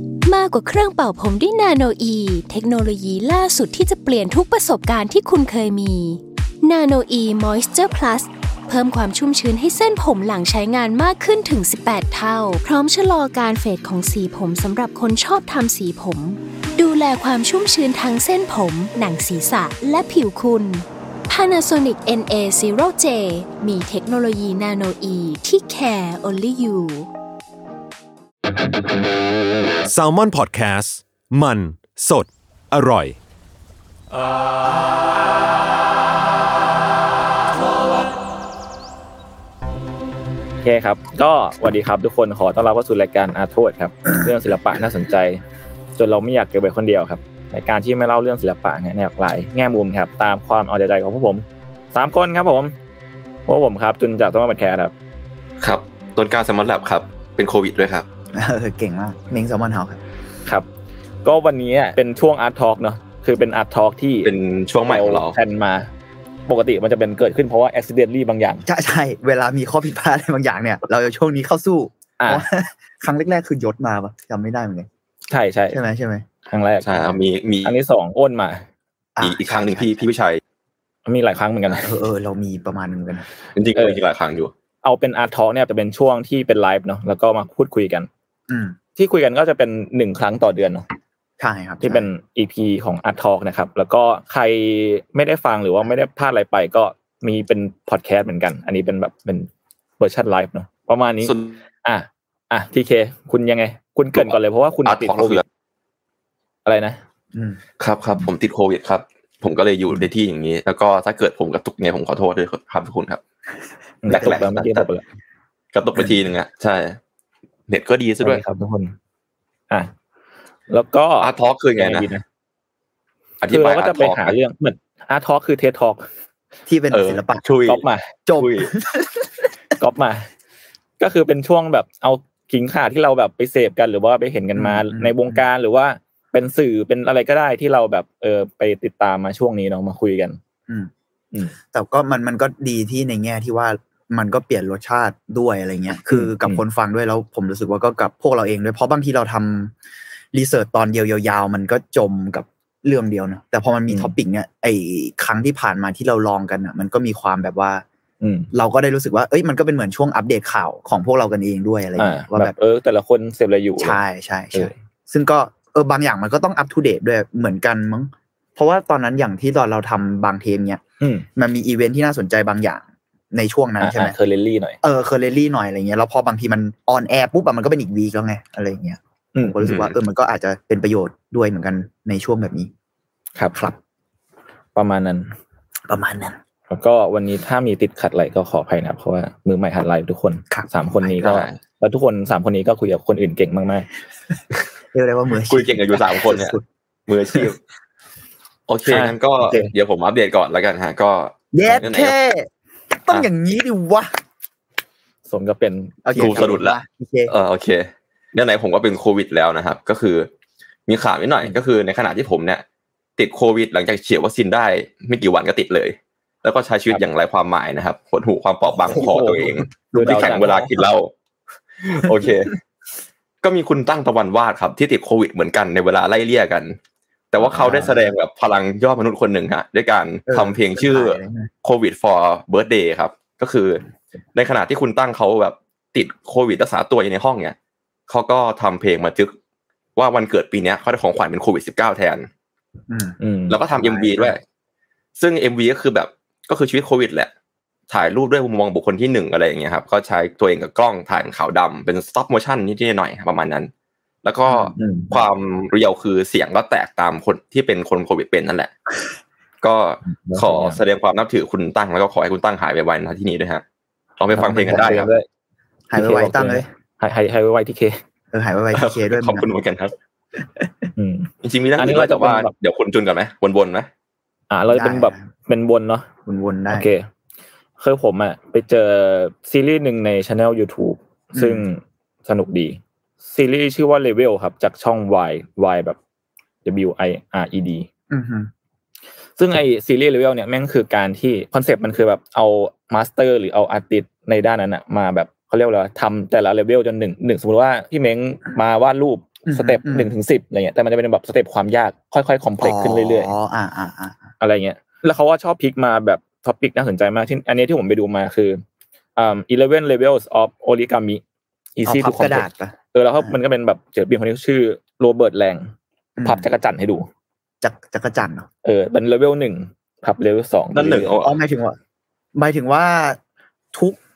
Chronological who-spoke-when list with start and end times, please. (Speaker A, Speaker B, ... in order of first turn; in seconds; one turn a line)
Speaker A: 0.2-27.1
Speaker B: 29.8-33.2
Speaker C: 40.6-45.4
Speaker C: 46.0-52.7
Speaker C: 53.5-54.9
Speaker D: 55.6-58.0
Speaker E: 58.3-60.0
Speaker C: 61.2-64.3
Speaker D: 64.2-65.3
Speaker C: 64.8-65.9
Speaker C: 66.5-68.6
Speaker E: 68.7-74.9
Speaker C: 72.2-72.4
Speaker C: 75.3-75.8
Speaker E: 75.7-76.2
Speaker C: 76.5-78.6
Speaker D: 76.8-77.8
Speaker E: 79.2-80.1
Speaker D: 79.2-80.4
Speaker C: 81.0-81.9
Speaker E: 81.8-83.2
Speaker D: 83.5-84.5
Speaker C: 84.8-88.1
Speaker E: 88.5-88.8
Speaker C: 89.0-90.8
Speaker E: 91.4-92.1
Speaker C: 91.8-105.4
Speaker D: 101.2-101.6
Speaker D: 104.8-105.4
Speaker C: 106.6-107.0
Speaker E: 107.3-107.6
Speaker D: 107.8-113.2
Speaker C: 114.0-115.0
Speaker E: 114.1-114.3
Speaker D: 114.1-114.9
Speaker D: 115.7-117.0
Speaker D: 117.7-118.4
Speaker C: 118.2-118.9
Speaker C: 120.7-122.2
Speaker D: 121.2-122.1
Speaker D: 123.4-124.3
Speaker C: 123.5-126.0
Speaker E: 126.7-127.4
Speaker D: 126.9-127.8
Speaker C: 127.7-128.1
Speaker E: 128.2-129.3
Speaker D: 128.4-128.7
Speaker C: 129.8-130.3
Speaker C: 131.0-140.4
Speaker E: 134.5-135.4
Speaker E: 141.7-149.7
Speaker C: 146.1-146.6
Speaker E: 150.3-157.8
Speaker C: 158.2-158.5
Speaker E: 158.5-162.5
Speaker C: 162.0-164.0
Speaker E: 163.8-170.8
Speaker C: 171.0-171.3
Speaker E: 171.3-174.2
Speaker C: 173.8-174.8
Speaker E: 174.8-182.7
Speaker D: 179.6-179.9
Speaker C: 184.7-185.3
Speaker E: 185.9-186.4
Speaker C: 186.7-193.9
Speaker D: 191.2-191.6
Speaker E: 194.9-196.6
Speaker D: 195.5-196.6
Speaker D: 197.1-197.6
Speaker D: 198.7-202.1
Speaker C: 198.9-199.7
Speaker E: 201.5-202.5
Speaker E: 203.0-204.1
Speaker C: 205.3-206.6
Speaker E: 206.0-207.3
Speaker D: 206.2-206.8
Speaker D: 207.3-210.3
Speaker D: 210.9-212.6
Speaker D: 213.2-221.1
Speaker C: 218.9-220.7
Speaker D: 221.8-222.5
Speaker D: 223.4-226.8
Speaker D: 227.3-233.8
Speaker E: 227.4-228.0
Speaker E: 230.3-231.5
Speaker D: 234.3-237.5
Speaker D: 238.1-239.3
Speaker D: 239.9-242.3
Speaker E: 242.9-243.2
Speaker C: 243.2-243.6
Speaker D: 243.5-244.4
Speaker E: 243.7-244.3
Speaker D: 245.2-247.3
Speaker D: 247.9-253.7
Speaker D: 254.2-258.7
Speaker E: 254.5-254.9
Speaker D: 259.6-263.6
Speaker C: 260.2-260.8
Speaker D: 264.2-265.1
Speaker C: 264.3-265.2
Speaker E: 265.9-266.7
Speaker C: 265.9-268.0
Speaker E: 268.3-269.5
Speaker D: 268.7-269.9
Speaker C: 270.9-272.5
Speaker D: 271.4-273.9
Speaker C: 274.5-276.1
Speaker E: 274.7-275.2
Speaker E: 276.2-276.9
Speaker C: 276.7-277.1
Speaker C: 277.8-286.0
Speaker E: 281.3-281.6
Speaker C: 286.6-287.9
Speaker E: 288.1-288.5
Speaker C: 289.4-303.3
Speaker E: 299.4-300.1
Speaker E: 302.6-304.3
Speaker C: 304.4-308.6
Speaker C: 309.1-311.2
Speaker C: 311.8-315.7
Speaker E: 311.9-313.4
Speaker E: 316.2-316.4
Speaker C: 316.2-317.1
Speaker E: 317.6-318.5
Speaker C: 318.6-321.1
Speaker D: 320.7-321.4
Speaker E: 321.2-321.8
Speaker E: 322.3-323.2
Speaker E: 323.7-324.0